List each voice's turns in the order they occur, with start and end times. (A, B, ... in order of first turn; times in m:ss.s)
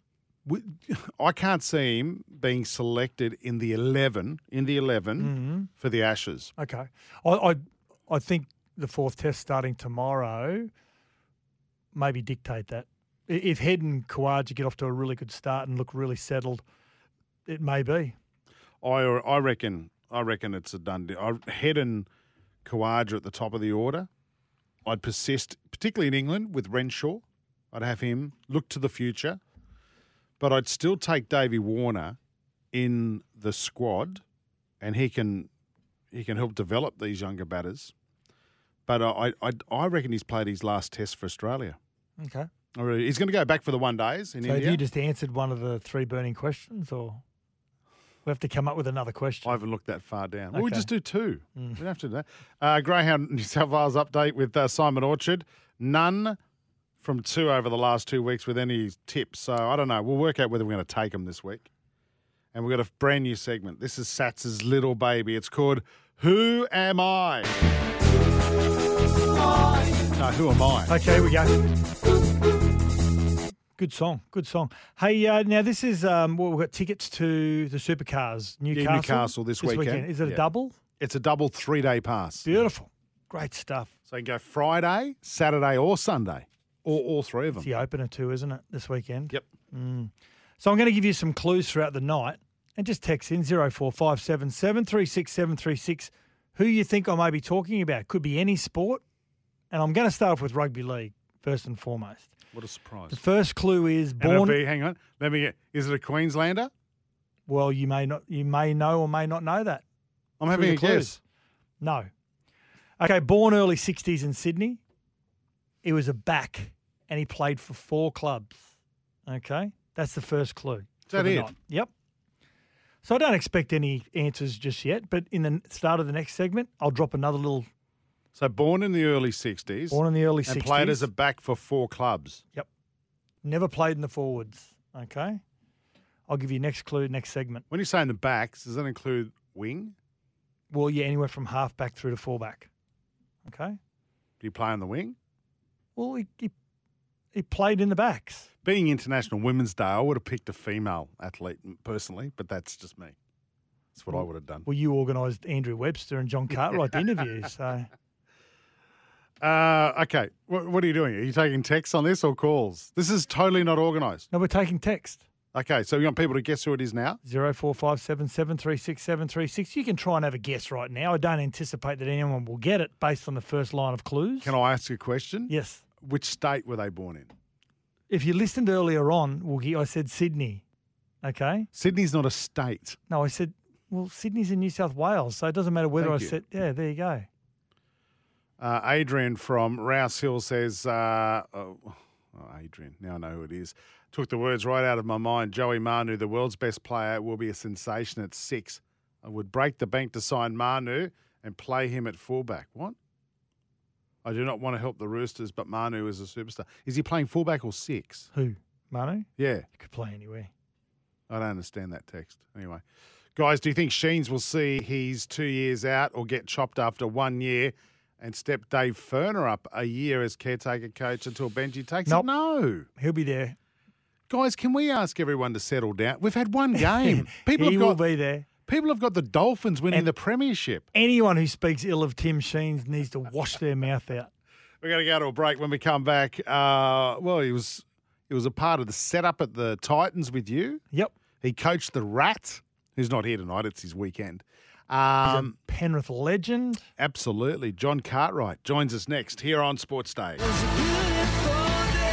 0:00.4-0:06.5 A
0:05.2-0:05.7 B
0:06.6-0:10.7 B
0:11.9-0:16.6 B
0:17.4-0:18.2 B
0:18.8-0:22.1 A
0:22.6-0:24.1 A
0:24.8-0:29.4 A
0:30.4-0:32.2 A
0:32.7-0:34.2 A
0:34.8-0:35.5 A
0:36.1-0:37.9 A
0:38.9-0:41.8 A
0:42.2-0:42.5 B
0:42.7-0:44.8 A
0:44.4-0:47.2 B
0:48.2-0:49.6 B
0:49.4-0:56.4 A
0:50.5-0:50.9 B
0:57.0-1:01.7 A
1:02.5-1:07.5 A
1:10.1-1:10.9 A
1:10.9-1:11.6 B
1:13.8-1:20.8 B
1:18.7-1:20.4 A
1:21.0-1:22.5 A
1:22.4-1:23.9 B
1:24.1-1:27.8 A
1:27.6-1:39.0 B
1:39.7-1:42.3 B
1:42.5-1:43.2 A
1:43.1-1:44.6 B
1:44.2-1:46.7 A
1:47.5-1:49.8 B
1:50.4-1:51.2 A
1:50.5-1:51.2 B
1:51.8-1:52.1 B
1:53.0-1:54.8 B
1:55.8-1:58.6 B
1:59.2-2:01.9 B
2:01.1-2:01.5 A
2:03.0-2:07.7 B
2:08.4-2:12.4 A
2:09.9-2:11.1 B
2:13.4-2:15.4 B
2:16.3-2:17.6 B
2:17.7-2:19.9 A
2:20.7-2:22.7 B
2:23.4-2:23.8 B
2:24.4-2:25.2 A
2:26.0-2:26.5 B
2:27.3-2:28.5 B
2:28.6-2:33.2 A
2:34.0-2:34.7 A
2:34.1-2:37.9 B
2:39.4-2:44.2 A
2:44.3-2:45.2 B
2:45.5-2:47.2 A
2:47.2-2:54.5 B
2:54.4-2:57.3 A
2:55.5-2:55.8 B
2:58.1-3:00.6 B
3:01.2-3:01.7 B
3:01.7-3:03.0 A
3:03.1-3:07.3 B
3:06.0-3:06.4 A
3:08.6-3:23.0 A
3:24.2-3:28.3 A
3:28.3-3:30.5 B
3:29.4-3:29.6 A
3:31.3-3:32.8 A
3:33.4-3:42.9 A
3:43.0-3:43.6 B
3:44.3-3:48.0 A
3:46.7-3:48.5 B
3:48.6-3:50.9 A
3:50.9-3:54.3 B
3:54.8-4:00.8 A
4:01.4-4:05.6 A
4:05.2-4:06.8 B
4:07.0-4:10.4 A